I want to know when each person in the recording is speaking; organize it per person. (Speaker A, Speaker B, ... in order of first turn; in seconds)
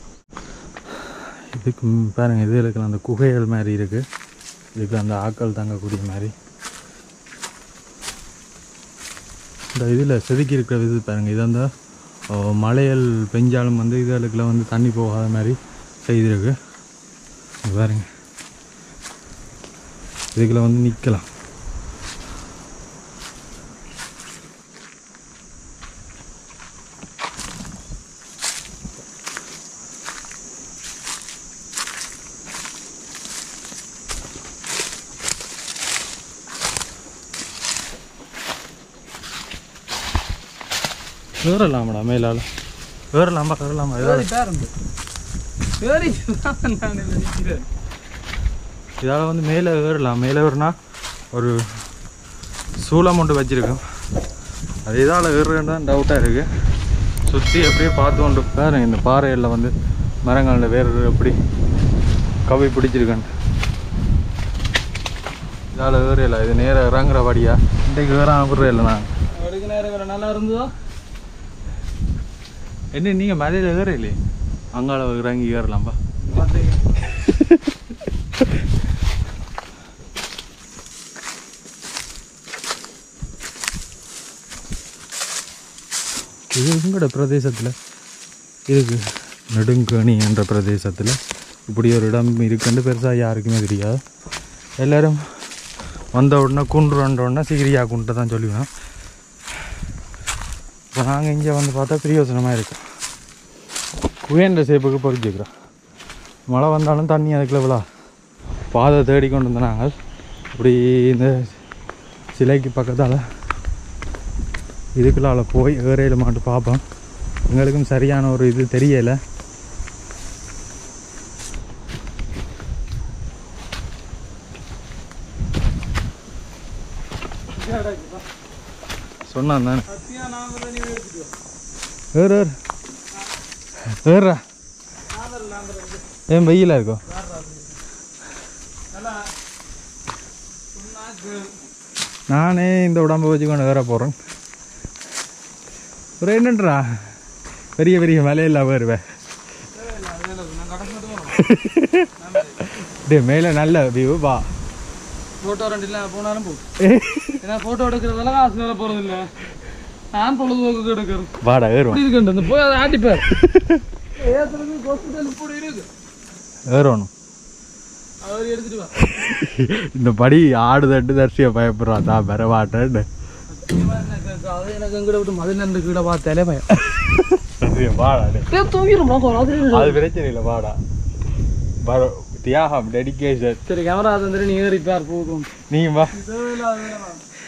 Speaker A: 1.5-4.0, 4.8-6.3, 9.7-11.7, 12.3-16.5, 17.6-18.1, 20.3-21.2, 41.4-42.5, 43.1-44.3, 49.0-50.7, 51.3-51.6, 52.8-53.8, 54.9-56.5, 57.3-59.7, 60.2-61.4, 62.5-63.3, 65.7-69.1, 72.9-74.2, 74.7-76.0, 77.3-77.6, 86.5-87.7, 88.7-94.0, 94.8-95.2, 96.2-98.7, 100.9-102.8, 104.2-105.5, 106.5-107.8, 108.7-109.9, 110.5-111.5, 112.3-113.2, 115.0-116.8, 117.5-119.2, 129.3-129.9, 132.1-132.5, 133.9-134.4, 136.3-137.0, 142.3-144.2, 146.2-147.0, 147.8-149.0, 151.3-154.4, 156.8-157.4, 161.4-162.1, 163.3-163.8, 166.7-167.1, 169.1-173.1, 177.1-178.5, 179.6-180.8, 181.8-183.6, 185.7-186.2
Speaker B: 44.0-44.7, 45.8-47.7, 69.3-70.7, 76.2-76.9, 127.5-128.3, 129.9-131.4, 135.1-136.2, 137.1-137.8, 138.9-139.3, 140.7-141.6, 149.7-151.5, 152.2-152.6, 155.4-156.7, 157.4-159.3, 160.1-161.4, 161.9-163.4, 164.2-165.9, 168.2-169.1, 173.5-176.8, 178.5-180.0, 183.7-185.5, 186.1-187.2